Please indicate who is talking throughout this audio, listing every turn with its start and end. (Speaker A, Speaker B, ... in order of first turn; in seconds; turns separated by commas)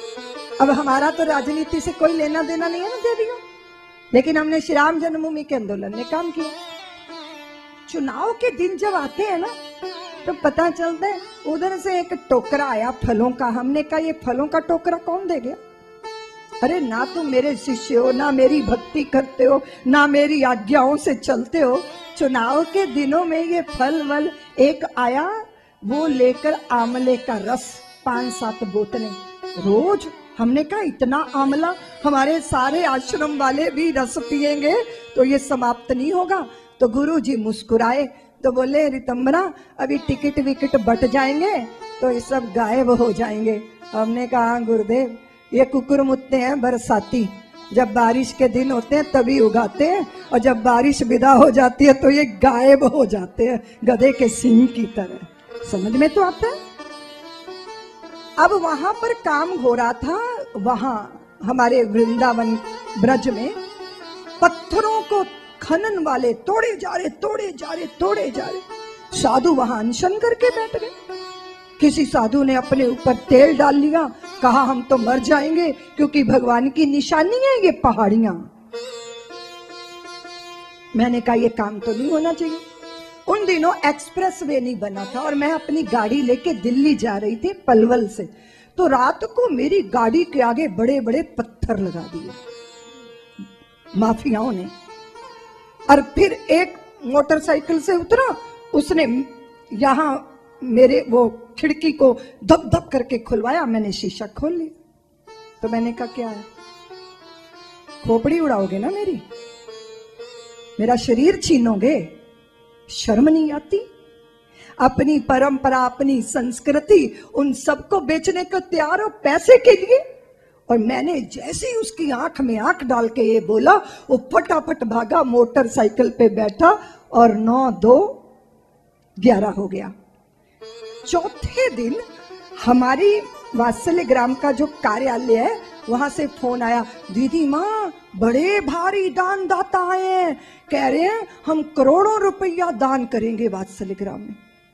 Speaker A: 0.6-3.4, Speaker A: 4.1-6.5, Speaker A: 7.9-9.5, Speaker A: 10.2-15.6, Speaker A: 16.6-56.6, Speaker A: 58.4-63.6, Speaker A: 64.4-70.9, Speaker A: 71.8-78.5, Speaker A: 81.0-82.6, Speaker A: 83.3-92.4, Speaker A: 94.0-94.7, Speaker A: 95.9-104.7, Speaker A: 105.6-106.5, Speaker A: 108.0-109.2, Speaker A: 110.8-112.1, Speaker A: 112.9-113.9, Speaker A: 114.8-120.0, Speaker A: 120.7-128.2, Speaker A: 129.2-129.9, Speaker A: 131.1-132.0, Speaker A: 132.6-144.4